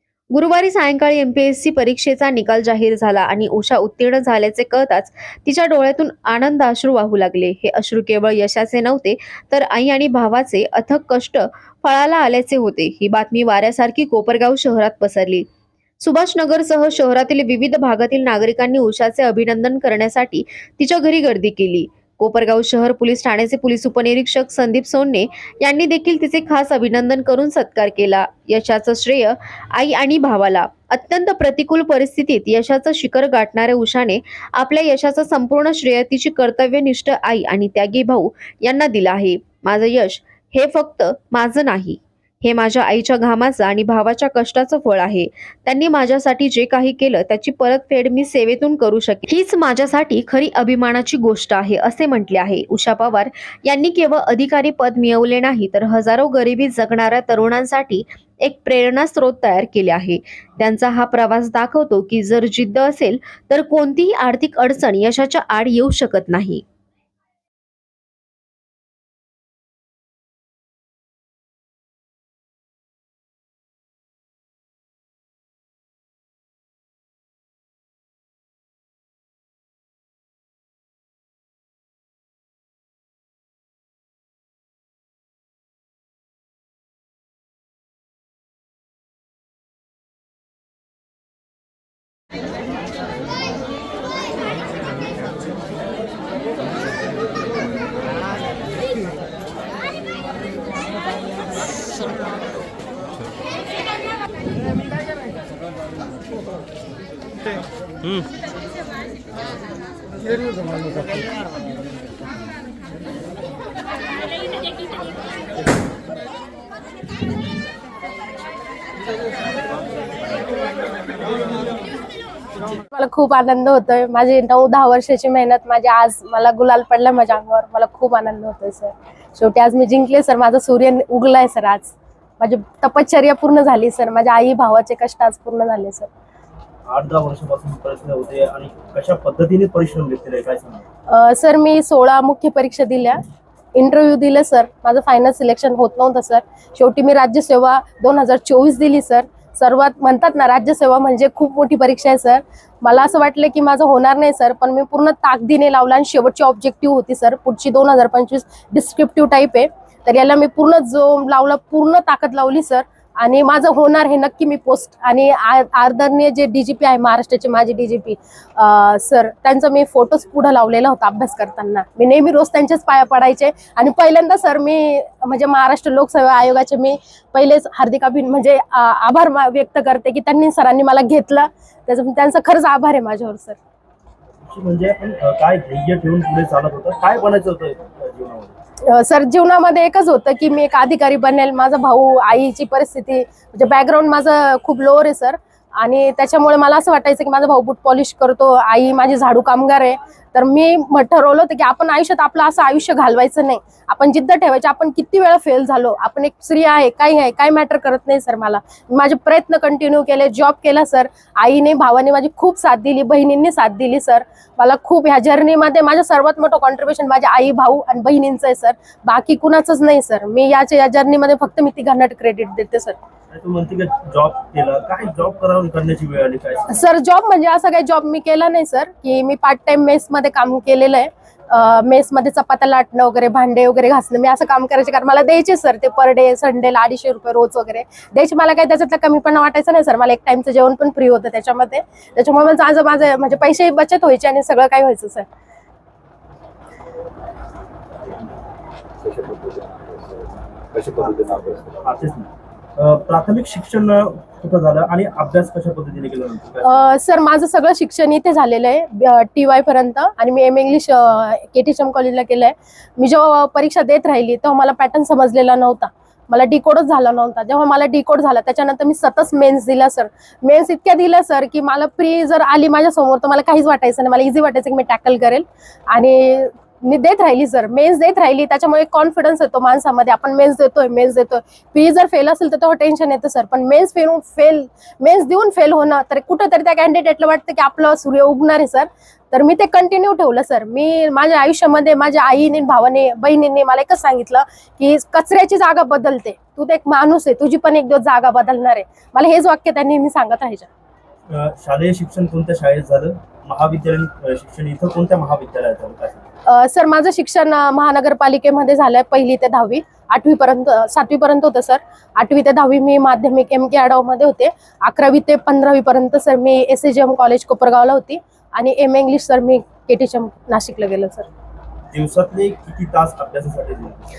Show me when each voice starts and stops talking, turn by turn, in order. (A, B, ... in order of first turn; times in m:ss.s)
0:00.3-0:15.4 A
0:16.0-1:06.6 A
2:02.9-2:16.1 B
2:16.9-2:20.8 C
2:21.1-2:23.2 B
2:23.7-3:03.6 B
3:04.4-3:08.6 C
3:08.9-3:43.0 B
3:43.3-3:46.8 C
3:46.7-4:05.2 B
4:09.0-4:11.8 D
4:11.8-4:16.8 C
4:16.6-5:00.7 B
5:01.3-5:06.2 C
5:06.5-5:21.3 B
5:21.9-5:24.0 C